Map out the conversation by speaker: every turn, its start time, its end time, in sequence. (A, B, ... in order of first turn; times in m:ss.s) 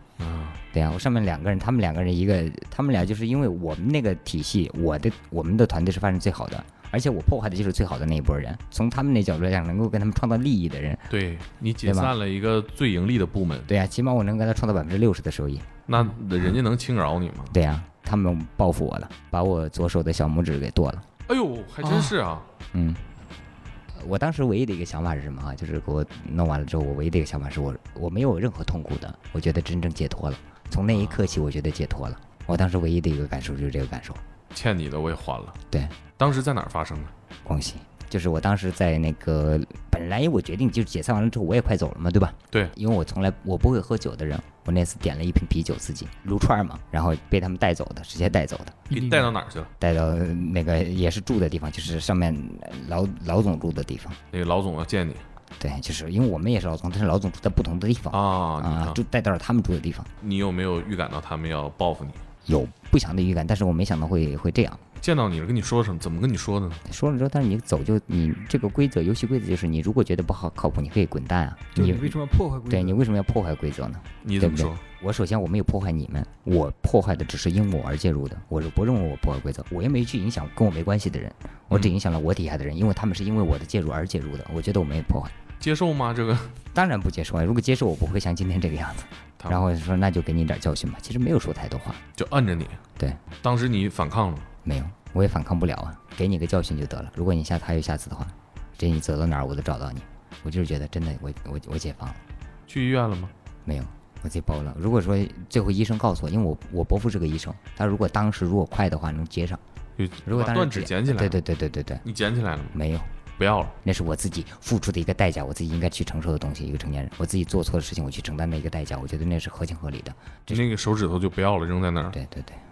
0:00.2-0:00.6 A
0:00.7-0:11.1 B
0:11.1-0:13.7 A
0:11.8-0:12.1 B
0:13.7-0:15.6 B
0:15.9-0:17.5 A
0:17.5-0:21.0 B
0:21.3-0:22.5 A
0:21.8-0:22.1 C
0:22.7-0:23.0 B
0:24.0-0:34.2 B
0:30.9-0:31.3 A
0:34.5-0:35.6 A
0:35.7-0:36.0 B
0:36.2-0:37.1 A
0:37.4-0:48.8 B
0:48.9-0:49.3 C
0:48.9-0:49.7 A
0:49.8-0:54.2 B
0:54.3-0:55.2 A
0:55.6-1:00.1 B
0:58.1-0:59.0 A
1:00.2-1:02.2 A
1:02.4-1:04.8 B
1:05.0-1:06.8 A
1:06.8-1:12.1 B
1:11.7-1:13.0 C
1:12.7-1:25.3 B
1:14.2-1:14.8 A
1:25.6-1:26.5 A
1:26.7-1:32.0 B
1:32.2-1:32.8 A
1:33.4-1:34.5 A
1:34.6-1:42.2 B
1:42.7-1:43.3 A
1:43.6-1:49.6 B
1:50.0-1:51.4 A
1:50.2-1:52.0 B
1:52.0-1:52.7 A
1:52.7-1:53.1 B
1:53.4-1:53.7 A
1:53.8-2:00.6 B
2:00.5-2:02.2 A
2:02.1-2:02.6 B